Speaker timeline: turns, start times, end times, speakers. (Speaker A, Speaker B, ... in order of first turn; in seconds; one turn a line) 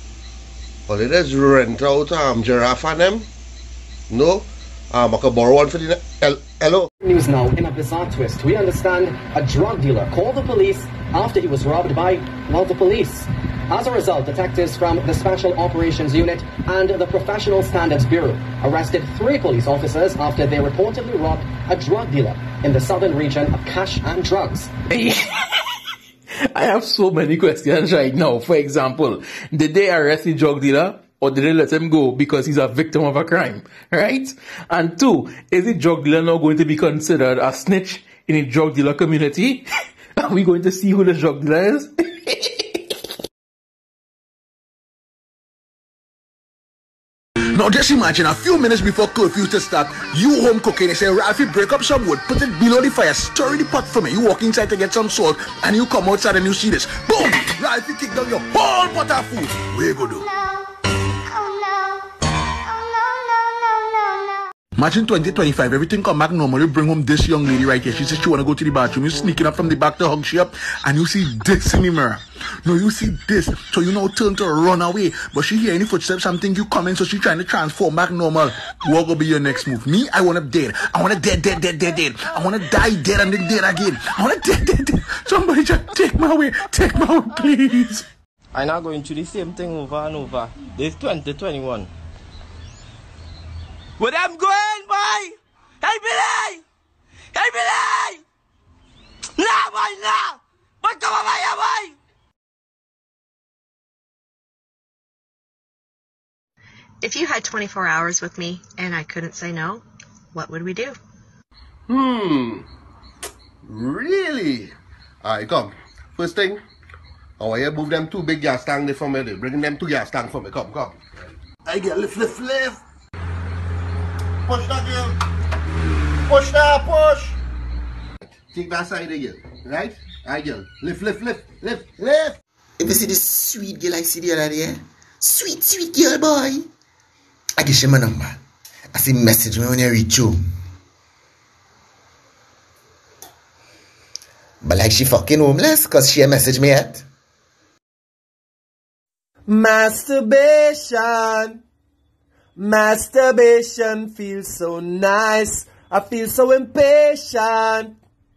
Speaker A: 0.9-3.3
Speaker A: 4.1-6.9
Speaker B: 7.0-24.7
Speaker C: 24.9-25.6
Speaker C: 26.4-42.4
Speaker D: 47.5-60.3
Speaker D: 64.8-88.0
Speaker E: 88.5-91.9
Speaker E: 94.0-96.6
Speaker E: 97.3-98.2
Speaker E: 99.4-101.9
Speaker F: 107.0-111.0
Speaker A: 111.9-112.6
Speaker A: 113.6-114.7
Speaker A: 115.2-116.6
Speaker A: 117.4-121.0
Speaker A: 121.6-122.8
Speaker A: 124.5-125.2
Speaker A: 126.2-127.4
Speaker A: 128.2-132.4
Speaker G: 132.8-134.7
Speaker G: 135.2-136.6
Speaker G: 137.6-138.3
Speaker G: 138.9-140.4
Speaker G: 144.6-147.0
Speaker H: 149.5-151.6
Speaker H: 152.6-157.9